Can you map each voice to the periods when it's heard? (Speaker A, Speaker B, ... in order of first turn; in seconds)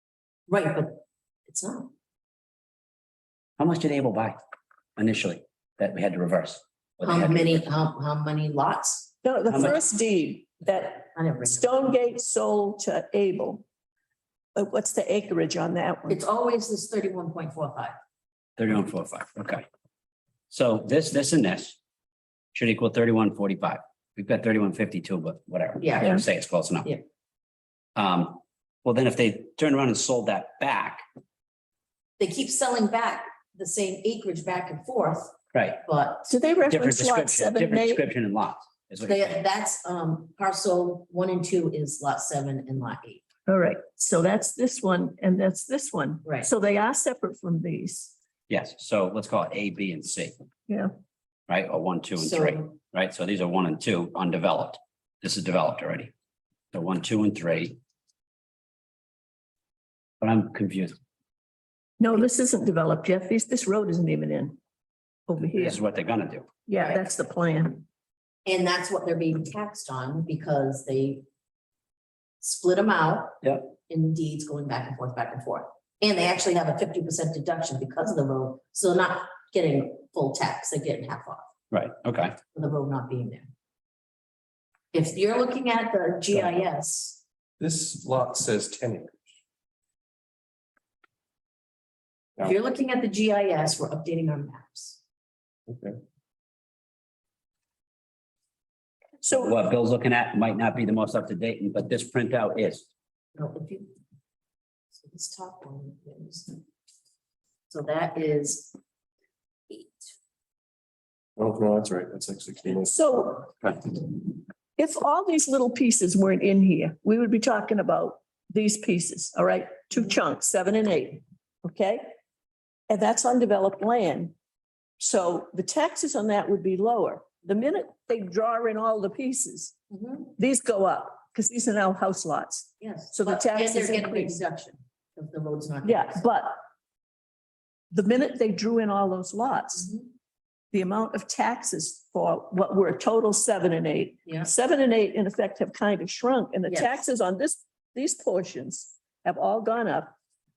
Speaker A: 0.5-1.9, 7.0-9.1, 11.1-11.9, 16.1-17.9, 25.8-26.2, 32.2-36.3, 39.0-43.2, 52.2-52.7, 68.5-71.2, 72.4-81.5, 82.5-83.5, 84.9-87.2, 92.4-95.0, 103.3-103.9, 105.0-106.6, 107.7-108.8, 109.7-110.1, 129.9-130.3, 132.8-136.2, 139.8-140.1, 146.7-147.0
Speaker B: 3.6-4.4, 5.0-7.7, 9.5-9.8, 18.6-19.6, 20.5-21.8, 22.5-26.9, 27.9-31.0, 35.5-35.8, 36.7-39.4, 48.5-50.3, 51.5-56.1, 56.7-57.8, 60.2-61.0, 65.5-66.5, 73.4-73.7, 81.7-82.4, 99.3-102.9
Speaker C: 9.2-13.6, 14.5-16.2, 36.3-38.0, 43.5-48.1, 62.0-64.6, 65.3-65.8, 66.7-67.8, 99.2-99.5, 112.8-113.8, 114.8-122.1, 122.9-124.3, 125.0-129.7, 130.4-134.4, 135.8-136.6, 137.9-139.9, 140.7-150.1
Speaker D: 87.6-89.3, 95.7-96.0, 111.3-113.0